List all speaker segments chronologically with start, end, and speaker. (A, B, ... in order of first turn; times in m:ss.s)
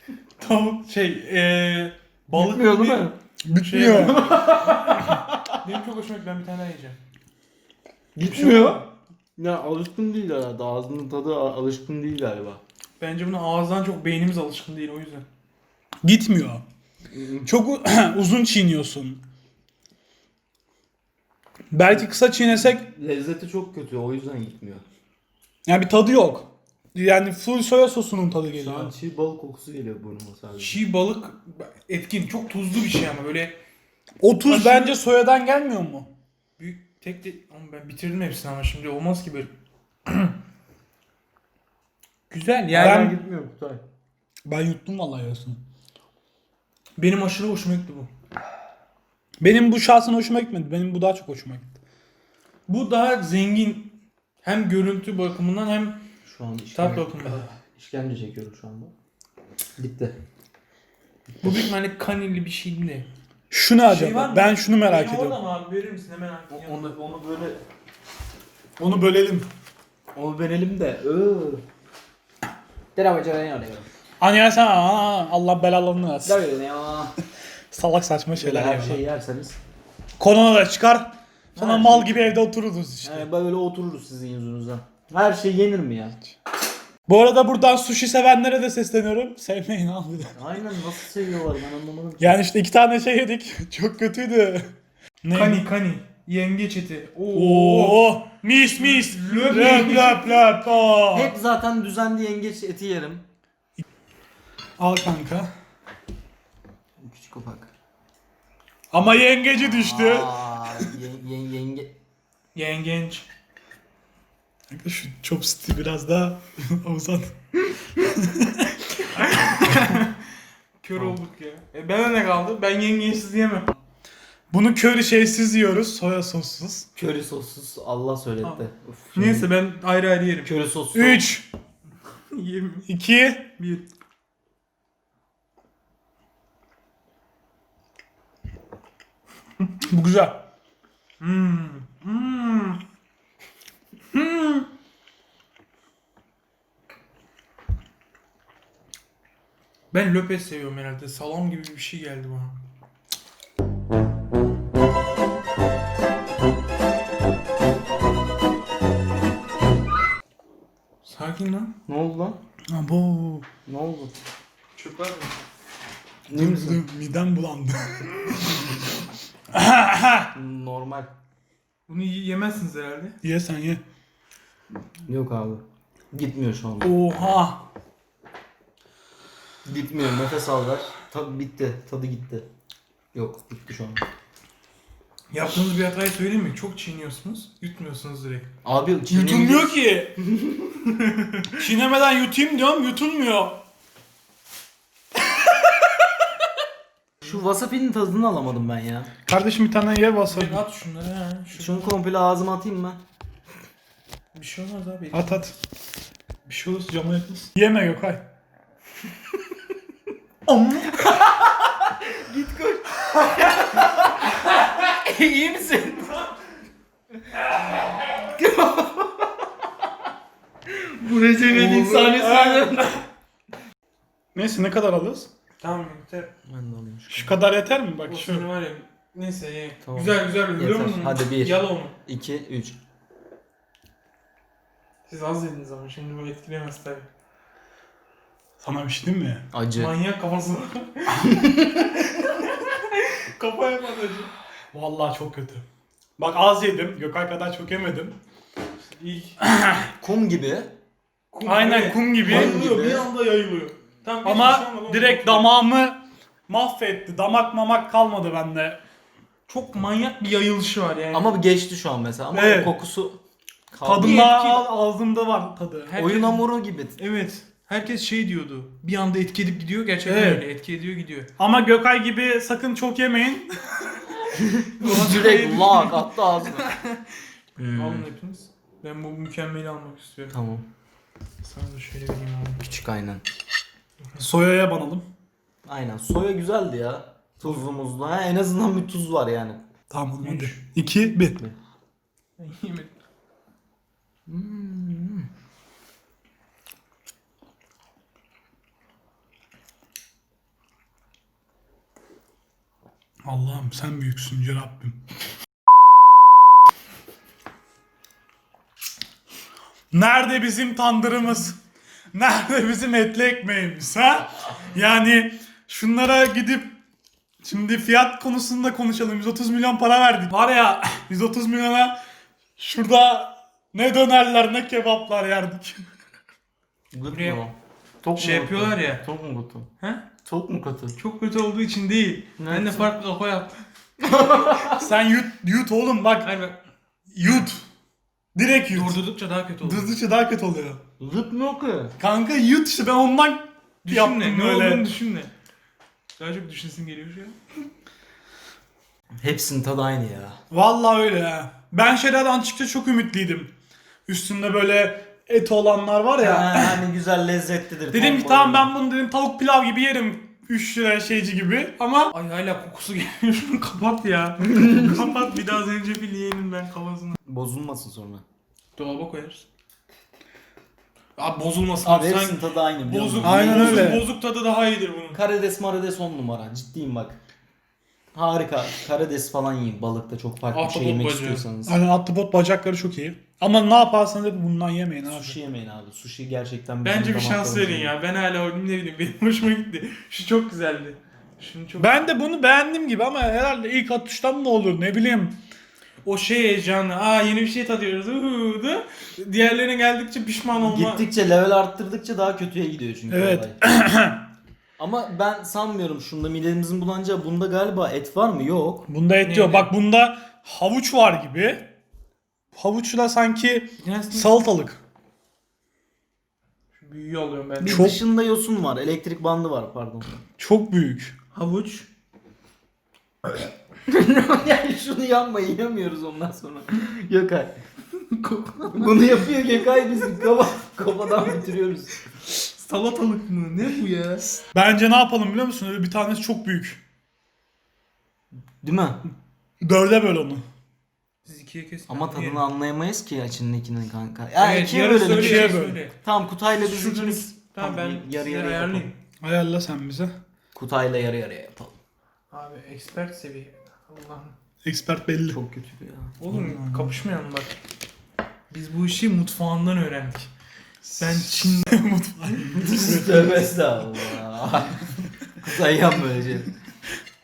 0:00.4-0:07.0 A
0:02.3-0:03.2 B
0:03.5-0:04.2 C
0:08.2-0:12.6 B
0:08.2-0:08.8 A
0:13.0-0:15.2 A
0:16.0-0:16.6 C
0:17.1-0:17.5 B
0:17.5-0:19.2 C
0:21.7-0:22.9 C
0:22.5-0:24.8 B
0:25.7-0:28.9 C
0:28.6-0:30.8 B
0:30.6-0:33.6 A
0:34.2-0:36.1 C
0:34.5-0:35.0 A
0:36.6-0:39.5 A
0:40.1-0:40.4 A
0:42.3-0:43.1 A
0:42.7-0:43.8 B
0:42.8-0:43.2 C
0:44.5-0:45.6 C
0:47.0-0:48.1 A
0:49.4-0:51.8 C
0:52.7-0:56.0 A
0:56.2-0:58.9 B
0:56.7-0:57.5 A
0:59.8-1:00.2 B
1:01.4-1:03.1 A
1:03.5-1:05.4 C
1:03.9-1:07.0 A
1:06.5-1:07.6 B
1:08.8-1:09.5 C
1:10.1-1:11.6 B
1:13.0-1:13.9 B
1:14.2-1:16.4 C
1:16.2-1:17.1 B
1:17.7-1:19.0 C
1:18.4-1:19.6 B
1:20.2-1:23.3 C
1:21.6-1:22.4 B
1:23.0-1:26.2 B
1:27.1-1:30.3 C
1:30.4-1:32.4 B
1:32.2-1:35.7 C
1:35.3-1:38.1 A
1:37.3-1:41.4 C
1:38.8-1:40.3 A
1:39.6-1:40.0 B
1:41.1-1:43.2 B
1:44.8-1:45.5 C
1:47.0-1:47.7 B
1:48.9-1:50.9 C
1:49.6-1:52.0 B
1:52.6-1:53.3 A
1:54.7-1:57.3 C
1:58.0-1:59.5 C
1:59.1-2:00.2 A
2:00.8-2:03.7 A
2:04.5-2:06.9 C
2:07.0-2:09.5 B
2:09.2-2:10.5 A
2:10.4-2:11.2 B
2:10.9-2:11.5 C
2:12.3-2:12.9 A
2:12.9-2:13.5 C
2:13.6-2:13.9 A
2:19.8-2:20.4 C
2:21.2-2:22.8 A
2:24.1-2:24.7 A
2:29.9-2:32.6 A
2:41.0-2:41.8 A
2:41.9-2:42.4 B
2:42.7-2:43.5 C
2:43.7-2:44.1 B
2:44.8-2:45.3 A
2:46.3-2:46.8 B
2:46.4-2:48.6 C
2:49.5-2:50.3 C
2:50.3-2:51.1 B
2:51.9-2:53.2 A
2:53.2-2:53.8 C
2:55.1-2:57.0 B
2:56.8-2:57.6 C
2:59.6-3:02.5 B
3:03.1-3:04.0 B
3:05.3-3:08.5 A
3:08.6-3:10.9 B
3:09.1-3:10.2 C
3:11.0-3:11.5 A
3:11.6-3:13.6 C
3:17.2-3:19.1 B
3:19.3-3:20.6 C
3:20.3-3:21.9 A
3:21.6-3:23.0 B
3:24.3-3:25.4 A
3:25.1-3:25.6 C
3:26.5-3:28.2 C
3:30.5-3:31.2 A
3:30.8-3:36.2 B
3:38.0-3:39.3 B
3:40.7-3:43.0 B
3:41.4-3:42.7 A
3:44.4-3:45.3 C
3:45.6-3:46.3 A
3:46.5-3:47.4 B
3:47.1-3:48.5 C
3:48.0-3:52.0 A
3:49.8-3:52.8 B
3:55.1-3:57.1 A
3:58.6-3:59.4 C
3:59.5-4:00.0 B
3:59.8-4:04.3 A
4:01.2-4:01.9 B
4:04.7-4:05.6 C
4:06.2-4:08.2 C
4:08.9-4:09.4 A
4:09.4-4:09.9 C
4:10.0-4:10.7 B
4:11.3-4:15.5 A
4:11.4-4:12.7 C
4:12.2-4:13.1 B
4:14.2-4:18.8 C
4:19.5-4:21.3 A
4:21.1-4:23.2 B
4:22.3-4:22.8 C
4:23.7-4:24.2 B
4:23.8-4:26.0 C
4:24.0-4:24.7 A
4:25.9-4:26.5 A
4:26.0-4:27.0 B
4:27.0-4:31.3 A
4:30.1-4:30.5 C
4:31.4-4:34.3 C
4:34.4-4:36.7 B
4:34.8-4:37.1 A
4:37.6-4:38.1 B
4:37.7-4:40.4 A
4:40.3-4:40.7 B
4:41.4-4:42.7 A
4:42.7-4:43.2 B
4:44.2-4:45.1 C
4:45.6-4:49.6 B
4:49.9-4:51.4 C
4:50.2-4:50.8 A
4:51.2-4:51.6 B
4:52.4-4:52.9 A
4:54.3-4:55.3 B
5:03.2-5:05.0 C
5:09.9-5:11.6 C
5:12.1-5:16.8 C
5:17.4-5:22.0 C
5:22.6-5:25.9 C
5:26.9-5:29.7 B
5:27.1-5:27.4 A
5:28.2-5:29.0 A
5:29.8-5:30.1 A
5:30.2-5:31.0 B
5:31.0-5:33.6 A
5:32.4-5:32.9 B
5:34.0-5:34.8 B
5:34.8-5:36.3 C
5:36.2-5:36.6 A
5:37.1-5:37.7 C
5:38.4-5:39.0 C
5:38.7-5:39.9 A
5:39.6-5:40.8 C
5:41.0-5:41.9 B
5:42.0-5:44.9 C
5:43.8-5:45.3 A
5:46.2-5:47.4 A
5:49.2-5:50.4 B
5:50.5-5:53.5 C
5:54.1-5:56.8 C
5:56.2-5:58.7 B
5:57.9-6:02.1 C
6:02.1-6:07.2 A
6:04.5-6:04.9 B
6:07.3-6:08.2 B
6:08.8-6:09.5 A
6:11.2-6:15.2 A
6:11.8-6:14.1 B
6:13.2-6:14.1 C
6:15.1-6:17.2 B
6:18.1-6:21.8 B
6:20.5-6:21.5 A
6:21.7-6:25.4 C
6:25.1-6:27.9 B
6:26.8-6:32.2 A
6:31.8-6:35.4 C
6:36.0-6:41.0 A
6:40.6-6:43.6 B
6:43.1-6:44.2 C
6:44.8-6:48.9 B
6:48.9-6:51.7 C
6:49.2-6:49.7 A
6:52.5-6:54.8 C
6:53.8-6:54.4 A
6:56.7-6:57.9 A
6:57.6-7:00.2 B
6:57.7-6:58.0 C
7:00.4-7:01.2 C
7:01.3-7:01.9 A
7:03.9-7:07.6 B
7:08.0-7:09.3 A
7:08.7-7:11.9 B
7:12.3-7:14.4 A
7:14.5-7:16.8 C
7:18.6-7:19.1 B
7:19.6-7:20.4 C
7:21.2-7:22.4 A
7:21.9-7:28.9 B
7:24.4-7:26.0 A
7:25.1-7:25.8 C
7:26.6-7:29.0 A
7:29.2-7:30.2 C
7:30.5-7:31.8 B
7:32.3-7:34.4 A
7:34.6-7:35.4 C
7:35.3-7:36.9 B
7:36.2-7:37.6 A
7:38.5-7:40.3 A
7:40.8-7:43.5 C
7:41.0-7:41.9 A
7:42.6-7:46.5 B